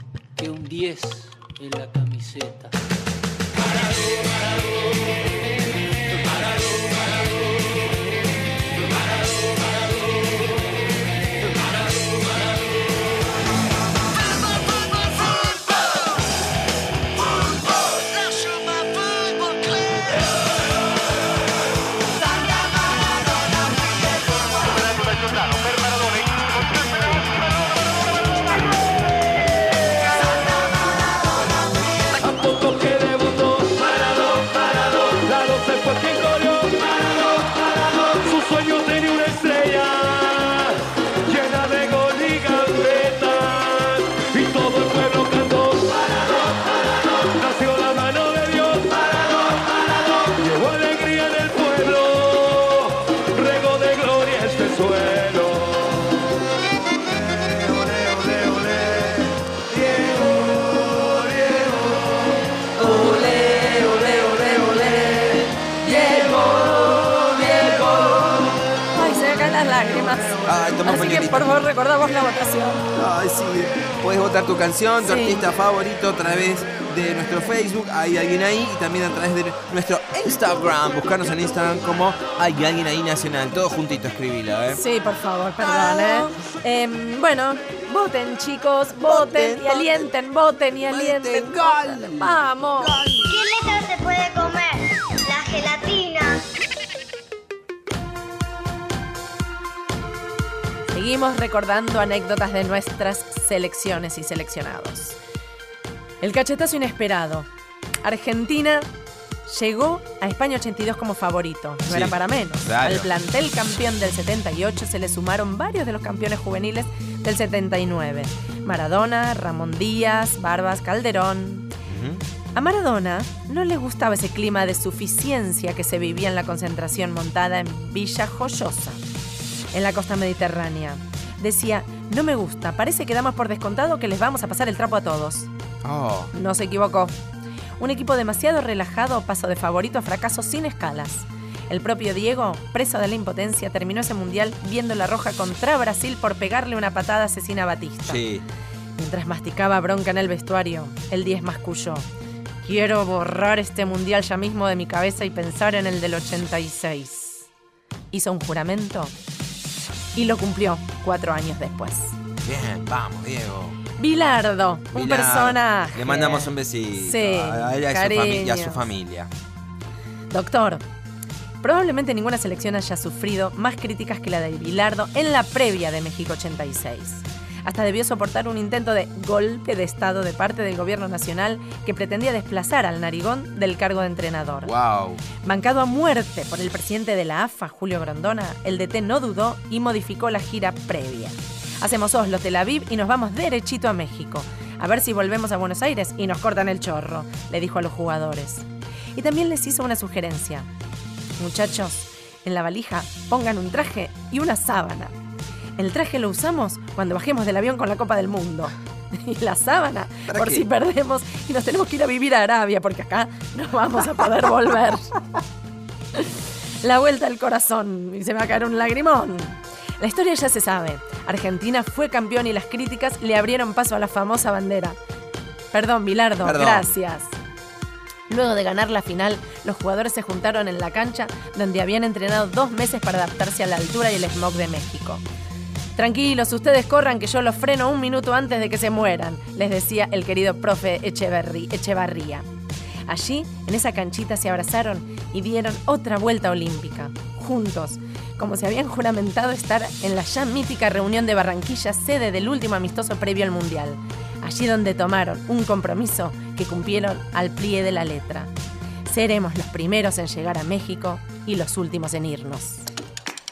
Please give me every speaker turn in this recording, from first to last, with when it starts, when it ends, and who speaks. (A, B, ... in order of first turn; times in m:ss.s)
0:00.4-0:02.7 A
0:25.5-0:26.0 B
0:32.2-0:56.2 B
0:57.9-0:59.0 B
0:59.8-1:00.2 B
1:02.8-1:12.8 C
1:10.4-1:11.5 D
1:12.9-1:24.8 D
1:15.0-1:15.4 C
1:24.7-1:33.0 C
1:25.6-1:26.3 D
1:29.0-1:30.1 D
1:30.8-1:33.4 D
1:33.5-1:34.7 E
1:35.3-1:36.2 E
1:40.9-1:45.2 C
1:46.2-1:47.5 C
1:48.0-1:48.9 C
1:49.5-2:01.7 C
1:51.9-1:53.1 D
2:01.9-2:02.2 D
2:02.6-2:09.0 C
2:09.7-2:15.5 C
2:15.8-2:16.3 D
2:16.3-2:17.1 C
2:17.8-2:28.2 C
2:28.1-2:28.4 D
2:29.0-2:32.1 C
2:32.6-2:37.5 C
2:38.1-2:39.1 C
2:40.2-2:42.2 C
2:42.4-2:43.8 D
2:44.0-2:48.9 C
2:44.9-2:49.3 D
2:50.3-2:50.8 C
2:51.6-3:04.7 C
3:04.6-3:05.2 D
3:05.4-3:20.7 C
3:21.4-3:25.1 C
3:25.8-3:35.1 C
3:30.3-3:30.7 D
3:36.2-3:45.0 C
3:45.7-3:47.4 C
3:46.4-3:46.9 D
3:48.3-3:55.2 C
3:56.0-4:02.5 C
4:03.1-4:18.5 C
4:19.1-4:22.8 C